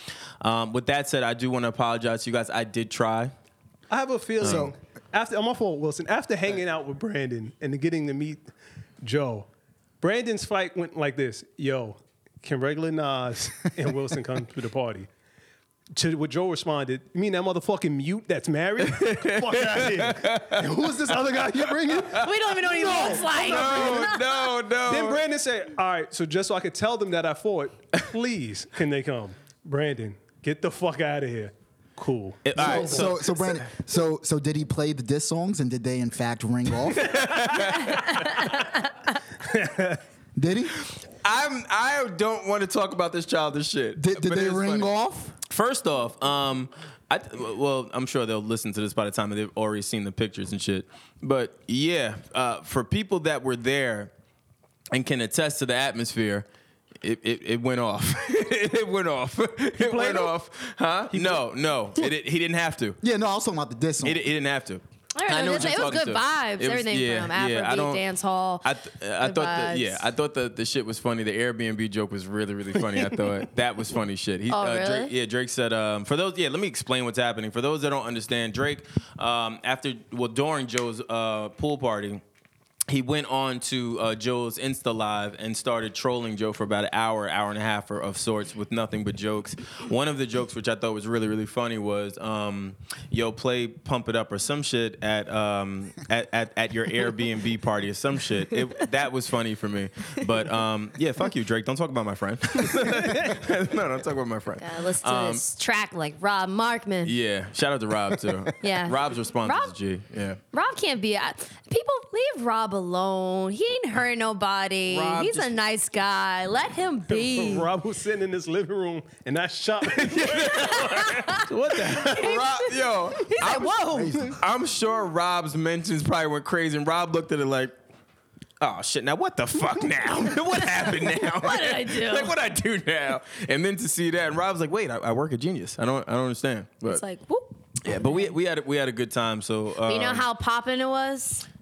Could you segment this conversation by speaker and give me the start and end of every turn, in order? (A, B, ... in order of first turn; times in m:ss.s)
0:00.4-0:03.3 A
0:03.9-0:08.4 B
0:04.4-0:04.7 A
0:04.4-0:04.7 C
0:09.0-0:09.5 B
0:10.0-0:15.1 B
0:15.9-0:24.3 B
0:18.8-0:21.0 A
0:21.5-0:22.3 A
0:22.1-0:24.3 D
0:22.9-0:25.2 A
0:24.8-0:33.1 B
0:32.4-0:33.6 A
0:32.6-0:37.6 C
0:36.9-0:38.6 A
0:39.4-0:40.0 B
0:40.4-0:40.7 C
0:40.9-0:44.9 A
0:44.0-0:45.3 C
0:45.5-0:54.1 A
0:54.9-0:56.4 A
0:57.0-1:03.0 A
0:59.8-1:00.3 B
1:01.1-1:01.4 B
1:03.0-1:04.2 C
1:04.0-1:08.0 A
1:05.1-1:08.6 D
1:08.6-1:22.2 A
1:09.2-1:10.0 D
1:14.5-1:15.1 D
1:22.9-1:45.4 A
1:44.6-1:47.1 D
1:47.0-1:50.4 A
1:48.6-1:49.7 D
1:50.5-1:57.7 D
1:54.9-1:55.5 A
1:57.1-2:02.4 B
1:59.9-2:01.2 A
2:00.4-2:04.4 D
2:01.9-2:07.7 A
2:03.9-2:04.4 C
2:08.6-2:17.0 A
2:11.2-2:12.3 D
2:16.8-2:17.9 D
2:17.8-2:20.2 A
2:19.8-2:21.4 D